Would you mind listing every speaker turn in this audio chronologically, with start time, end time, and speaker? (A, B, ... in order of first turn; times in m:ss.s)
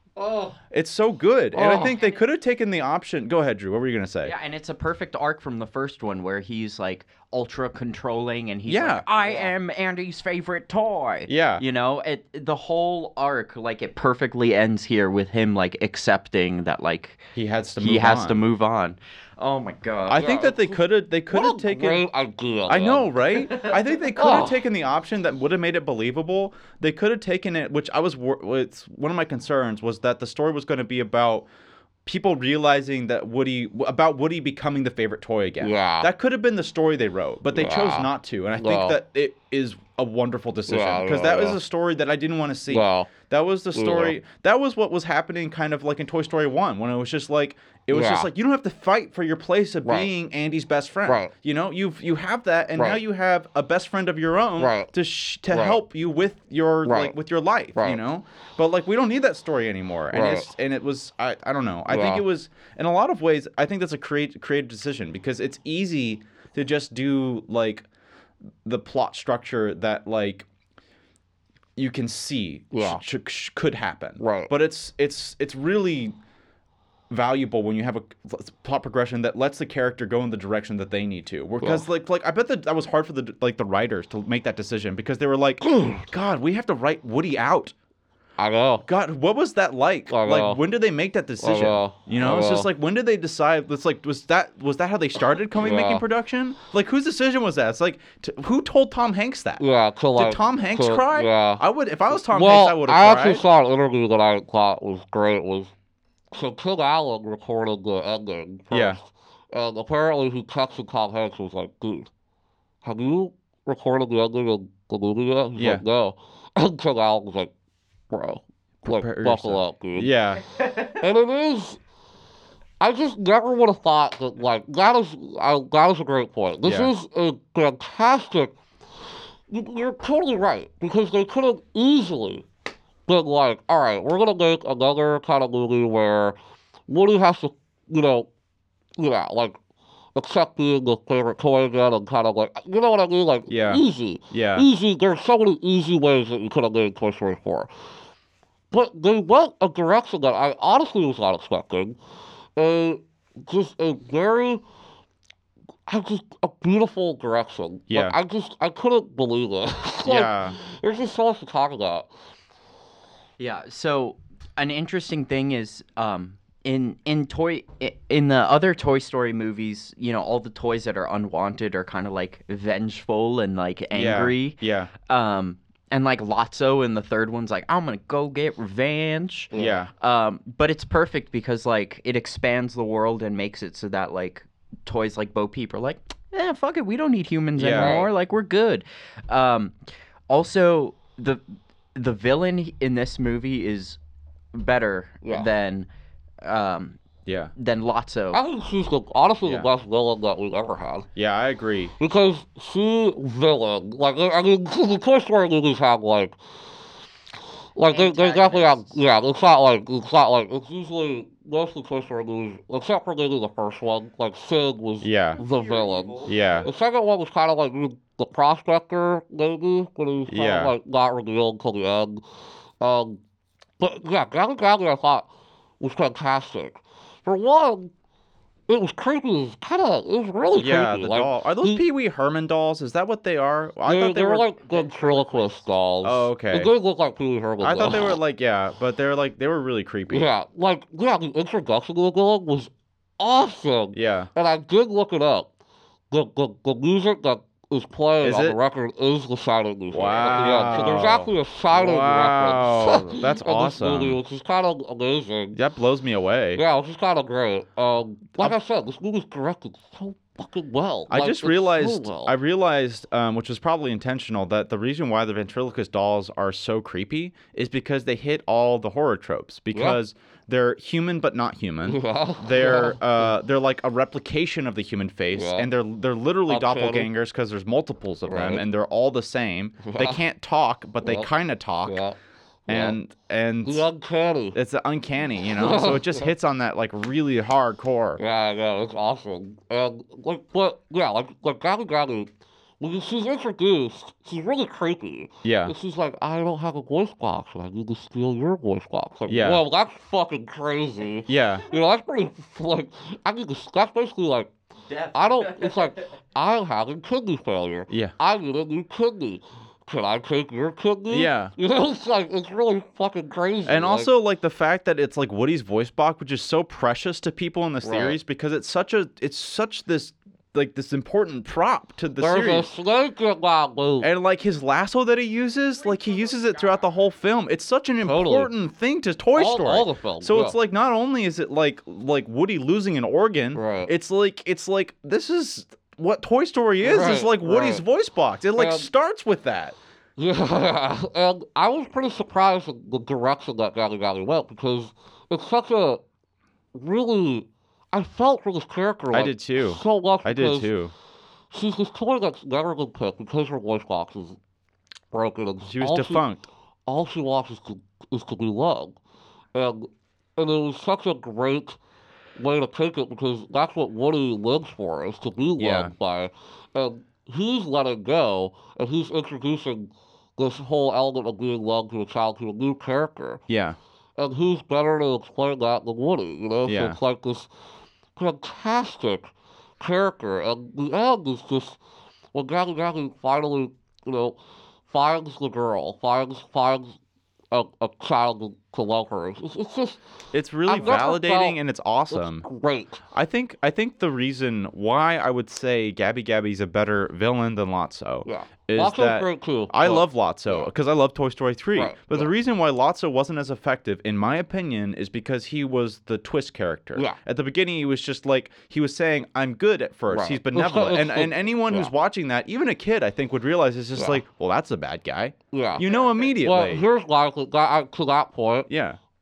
0:00.2-0:00.6 A
0:00.7-0:04.3 B
0:01.5-0:01.9 A
0:04.2-0:20.3 C
0:08.7-0:09.0 B
0:11.3-0:11.6 B
0:17.3-0:18.4 B
0:20.1-0:22.0 B
0:20.1-0:23.1 A
0:22.7-0:31.5 B
0:24.2-0:24.6 A
0:32.0-1:07.8 B
0:35.6-0:36.1 A
0:37.5-0:39.0 A
0:40.7-0:41.6 A
0:42.7-0:43.1 A
0:43.7-0:44.2 A
0:47.9-0:48.3 A
0:51.1-0:51.3 A
0:54.6-0:54.9 A
0:55.5-0:55.8 A
0:56.8-0:57.2 A
1:00.1-1:00.5 A
1:01.9-1:02.2 A
1:08.6-1:10.5 B
1:11.8-1:16.1 B
1:12.7-1:13.0 A
1:14.2-1:14.5 A
1:17.1-1:27.7 B
1:21.6-1:21.9 A
1:25.6-1:26.1 A
1:28.4-1:28.8 A
1:28.8-1:39.6 B
1:30.1-1:30.6 A
1:31.4-1:32.7 A
1:35.6-1:36.0 A
1:39.6-1:45.7 A
1:40.2-1:43.4 B
1:46.3-1:52.1 A
1:48.7-1:49.0 B
1:52.8-1:57.5 A
1:55.6-1:55.8 B
1:58.1-2:00.1 A
1:58.8-2:00.4 B
2:00.8-2:01.8 A
2:02.8-2:08.5 A
2:06.6-2:06.9 B
2:09.5-2:12.4 A
2:13.1-2:16.4 A
2:16.9-2:18.3 A
2:19.0-2:19.6 A
2:20.1-2:27.7 A
2:23.5-2:24.7 B
2:28.7-2:32.0 A
2:32.6-2:34.6 A
2:35.9-2:42.1 A
2:37.9-2:38.2 B
2:40.0-2:40.6 B
2:43.4-3:09.8 C
2:53.9-2:54.9 B
2:59.5-2:59.8 A
2:59.5-2:59.9 B
3:07.6-3:08.0 B
3:07.7-3:08.1 A
3:10.3-3:11.4 C
3:11.9-3:14.0 C
3:14.5-3:15.9 C
3:16.4-3:17.0 C
3:17.2-3:17.5 B
3:17.6-3:18.4 C
3:18.3-3:21.1 A
3:19.4-3:19.7 B
3:21.1-3:21.9 B
3:22.0-3:26.4 A
3:27.8-3:42.2 A
3:27.9-3:29.0 C
3:35.0-3:35.4 B
3:35.4-3:36.4 C
3:36.2-3:36.7 B
3:40.3-3:40.7 B
3:42.8-3:43.2 A
3:43.8-3:45.3 A
3:45.8-3:47.9 A
3:48.7-3:51.8 A
3:50.6-3:54.5 B
3:53.8-3:58.2 A
3:54.7-3:55.4 C
3:56.0-3:56.7 B
3:57.6-4:00.2 B
4:00.1-4:05.5 A
4:03.9-4:04.3 B
4:06.1-4:15.6 A
4:08.2-4:08.6 B
4:09.9-4:14.2 B
4:15.5-4:16.6 B
4:16.5-4:22.3 A
4:21.1-4:42.0 B
4:29.7-4:30.0 A
4:31.8-4:33.3 A
4:35.3-4:35.7 A
4:36.5-4:37.1 A
4:38.3-4:38.6 A
4:39.8-4:40.2 A
4:41.0-4:41.3 A
4:41.8-4:43.0 A
4:42.7-4:43.8 B
4:43.6-4:44.6 A
4:44.5-4:48.2 B
4:45.4-4:46.3 A
4:48.2-5:04.5 A
4:55.4-4:55.7 B
4:59.3-4:59.6 B
5:01.3-5:01.6 B
5:04.9-5:05.8 C
5:05.1-5:14.1 A
5:11.1-5:11.5 B
5:13.6-5:22.7 B
5:17.8-5:18.2 A
5:22.2-5:24.1 A
5:24.0-5:39.8 B
5:28.0-5:28.5 A
5:29.4-5:30.6 A
5:33.5-5:33.9 A
5:36.8-5:37.8 A
5:38.5-5:38.9 A
5:40.2-5:46.0 A
5:46.7-5:50.7 A
5:49.1-5:50.9 B
5:51.5-5:54.4 A
5:55.1-5:56.2 A
5:55.7-5:56.4 B
5:56.9-5:59.0 A
5:59.5-6:01.8 A
6:02.4-6:13.4 A
6:05.6-6:05.9 B
6:13.5-6:13.8 B
6:14.2-6:17.5 A
6:16.6-6:17.0 B
6:18.2-6:21.8 A
6:22.3-6:24.4 A
6:24.9-6:27.0 A
6:27.5-6:30.0 A
6:30.3-6:32.4 B
6:30.7-6:31.6 A
6:32.1-6:33.0 A
6:33.1-6:56.8 B
6:38.2-6:40.7 A
6:41.8-6:42.3 A
6:50.1-6:51.9 A
6:54.0-6:54.2 A
6:55.5-6:58.7 A
6:58.7-6:59.0 B